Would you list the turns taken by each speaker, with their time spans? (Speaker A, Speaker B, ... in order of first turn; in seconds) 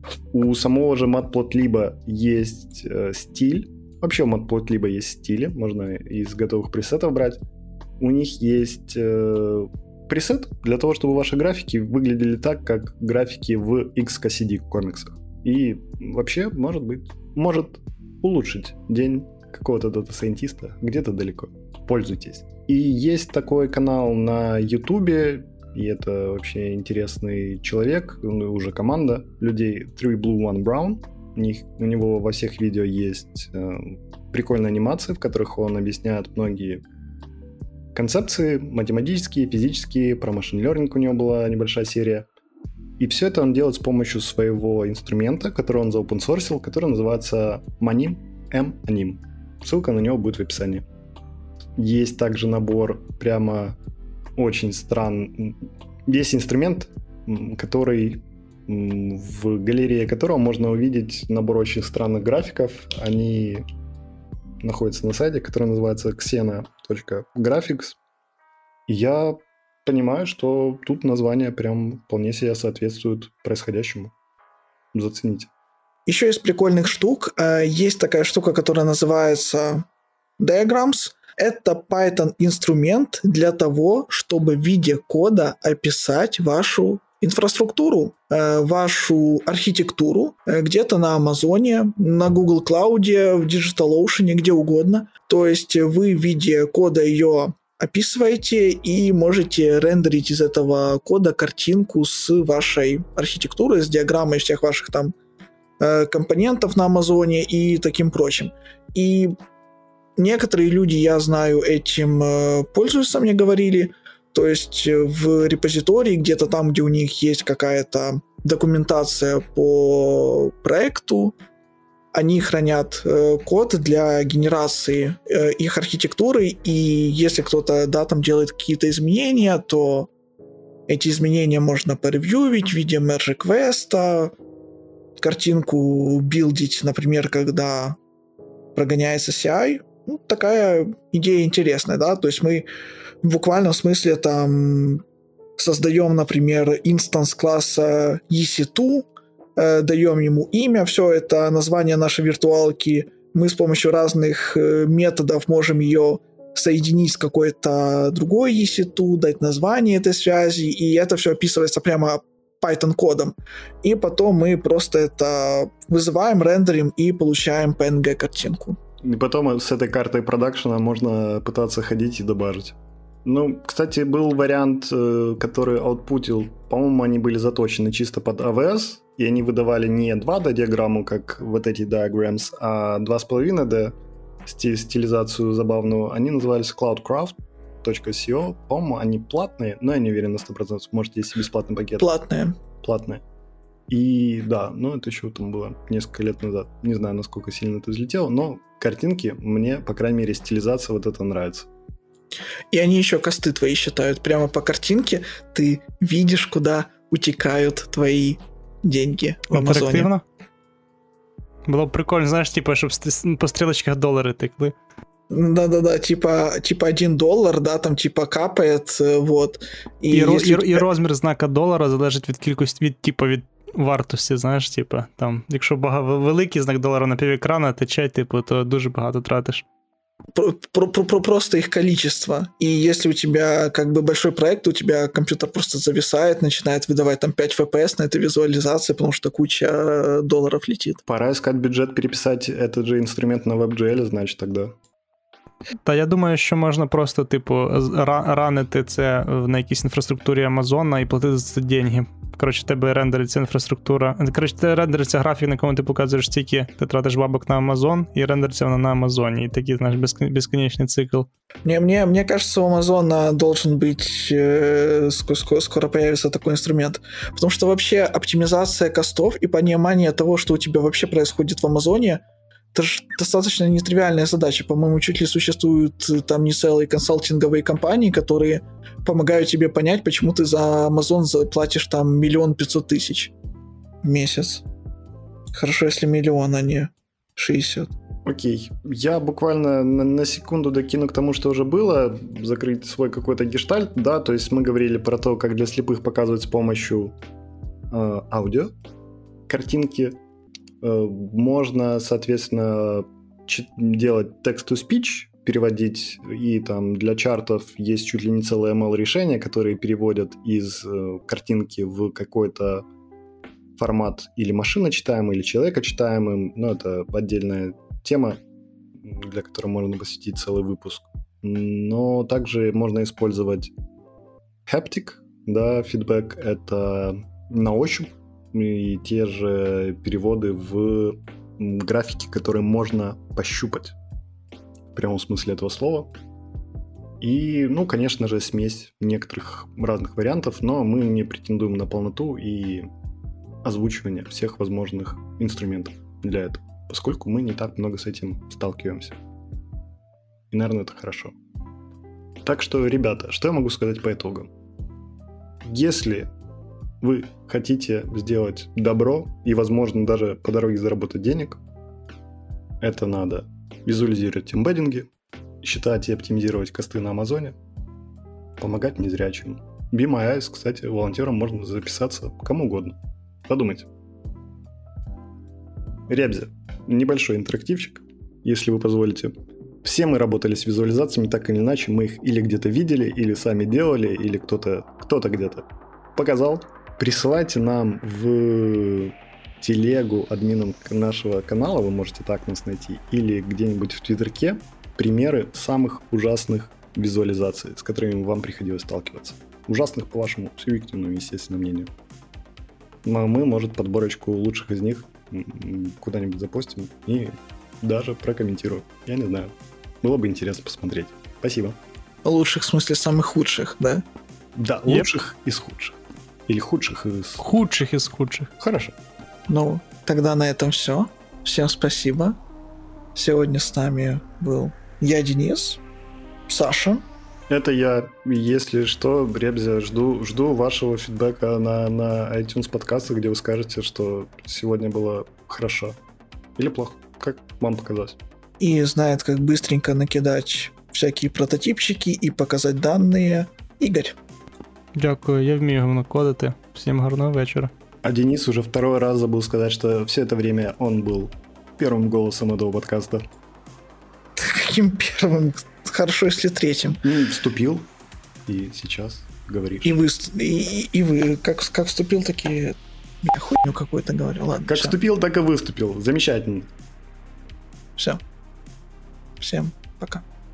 Speaker A: 0.3-7.4, 8.0-36.8, 37.9-42.3, 43.0-50.8, 51.8-53.8, 54.4-63.6, 64.6-68.0, 68.9-74.1, 74.9-75.5, 169.0-192.1, 192.8-193.2, 193.9-201.7, 241.1-244.8, 288.2-297.1, 297.9-298.7, 299.5-300.2, 300.8-312.9, 313.8-318.4, 319.0-323.7, 324.6-333.9, 334.9-336.1, 337.2-342.9, 343.6-349.2, 350.5-351.3, 352.4-354.5, 355.6-356.3, 357.0-361.6, 362.8-365.1, 365.6-367.6, 368.6-373.9, 376.1-401.9, 403.0-411.8, 414.6-417.4, 418.6-418.9, 427.5-436.0, 436.6-438.2, 448.0-453.2, 457.0-457.9, 458.4-459.9, 464.7-466.7
Speaker B: 76.1-79.9, 80.4-105.1, 105.8-109.3, 110.2-121.3, 122.1-130.1, 130.9-134.3, 135.2-138.0, 138.7-142.7, 143.2-145.0, 145.6-168.8, 192.0-192.6, 202.7-210.1, 215.3-220.9, 230.3-241.0, 261.6-272.2, 272.7-283.3, 284.0-284.6, 285.5-287.9, 412.2-414.0, 419.5-422.4, 423.1-425.8, 426.5-427.0, 438.6-444.2, 454.3-457.1, 459.8-465.0, 469.4-470.2
Speaker C: 209.5-210.2, 211.6-214.7, 220.1-229.6, 245.8-261.3, 417.4-418.5, 444.9-447.7